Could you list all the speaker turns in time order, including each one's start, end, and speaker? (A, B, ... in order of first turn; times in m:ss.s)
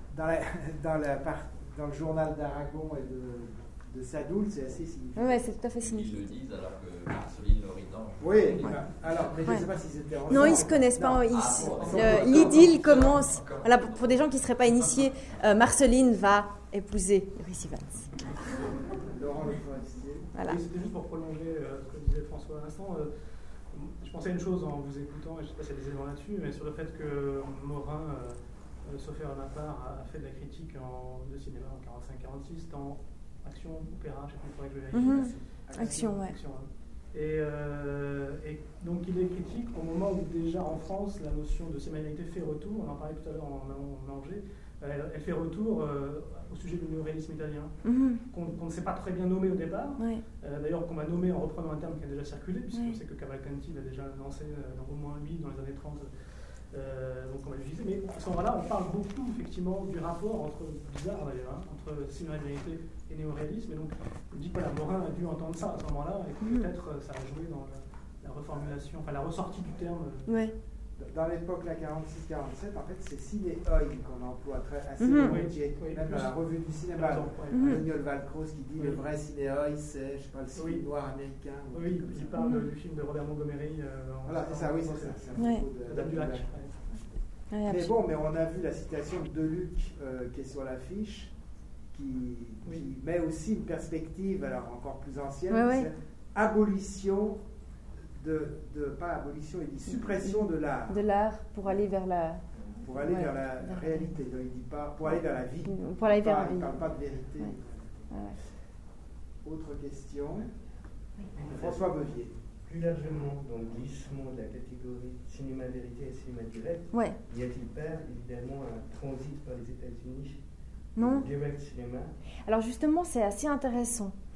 0:00.1-0:05.4 A
0:05.2-0:06.2 B
0:05.8-0:09.4 C
0:08.2-0:12.9 A
0:10.3-0:18.2 B
0:11.3-0:15.0 C
0:19.1-0:20.3 A
0:20.3-0:20.6 B
0:20.4-0:23.1 D
0:23.7-0:47.7 D
0:34.9-0:36.4 B
0:35.1-0:36.1 A
0:47.8-0:48.2 B
0:48.3-0:56.1 D
0:50.0-0:50.2 B
0:52.7-0:53.0 B
0:56.7-1:10.3 D
1:06.4-1:06.7 B
1:10.3-1:10.5 B
1:11.0-1:22.4 A
1:15.0-1:15.4 B
1:15.1-1:16.4 D
1:16.9-1:17.8 D
1:17.5-1:17.8 B
1:18.8-1:19.0 D
1:20.5-1:20.8 D
1:21.7-1:26.8 D
1:22.4-1:22.7 B
1:24.2-1:27.0 A
1:25.4-1:25.6 B
1:27.5-1:27.9 B
1:27.6-1:31.3 A
1:31.9-1:37.4 A
1:32.6-1:32.9 D
1:35.5-1:35.9 B
1:38.2-1:41.0 A
1:39.8-1:42.4 B
1:42.8-1:48.1 A
1:43.0-1:44.1 B
1:45.0-1:46.8 B
1:48.1-1:48.4 B
1:49.4-1:50.5 A
1:51.3-1:51.9 E
1:51.5-1:52.3 A
1:52.6-2:00.4 E
1:56.9-1:57.2 B
2:01.0-2:01.3 B
2:01.0-2:02.1 E
2:02.4-2:04.1 B